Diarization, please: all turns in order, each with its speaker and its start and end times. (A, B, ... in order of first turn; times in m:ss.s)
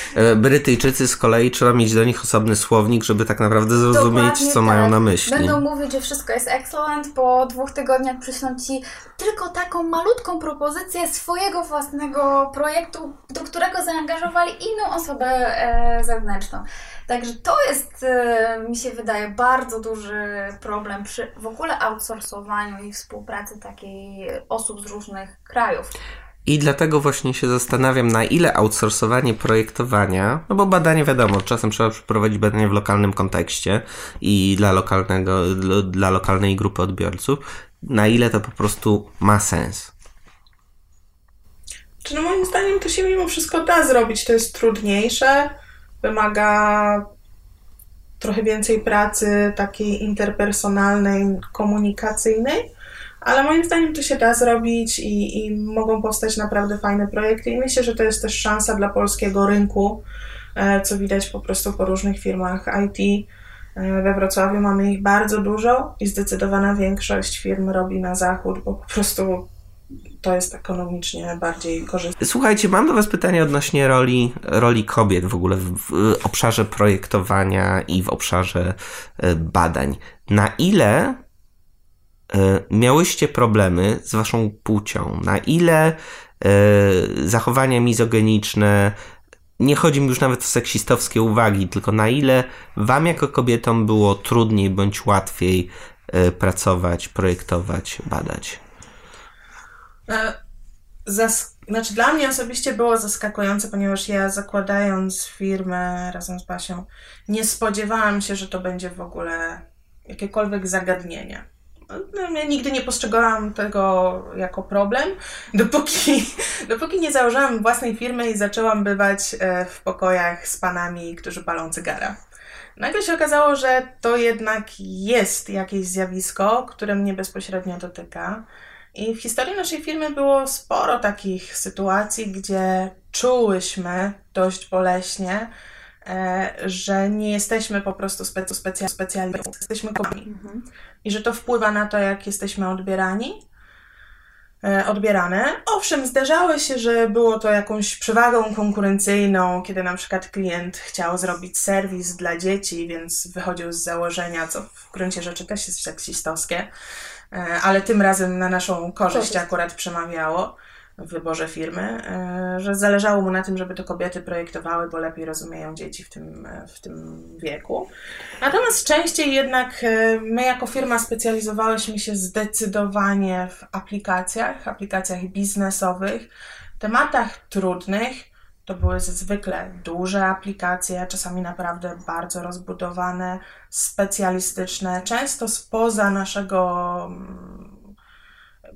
0:00.1-0:05.6 A
0:03.8-0:25.9 B
0:26.4-0:39.9 A
0:42.0-0:47.1 C
0:48.2-0:52.7 C
0:53.2-1:00.0 C
1:00.6-1:09.5 C
1:10.2-1:12.1 C
1:12.2-1:21.2 A
1:22.3-1:29.0 A
1:29.6-1:38.6 A
1:40.1-1:40.4 C
1:41.0-2:02.2 C
2:02.8-2:15.5 C
2:16.0-2:20.3 C
2:20.2-2:20.6 B
2:21.0-2:23.4 C
2:24.6-2:36.7 C
2:37.3-2:47.9 C
2:39.1-2:39.4 B
2:48.4-3:07.8 C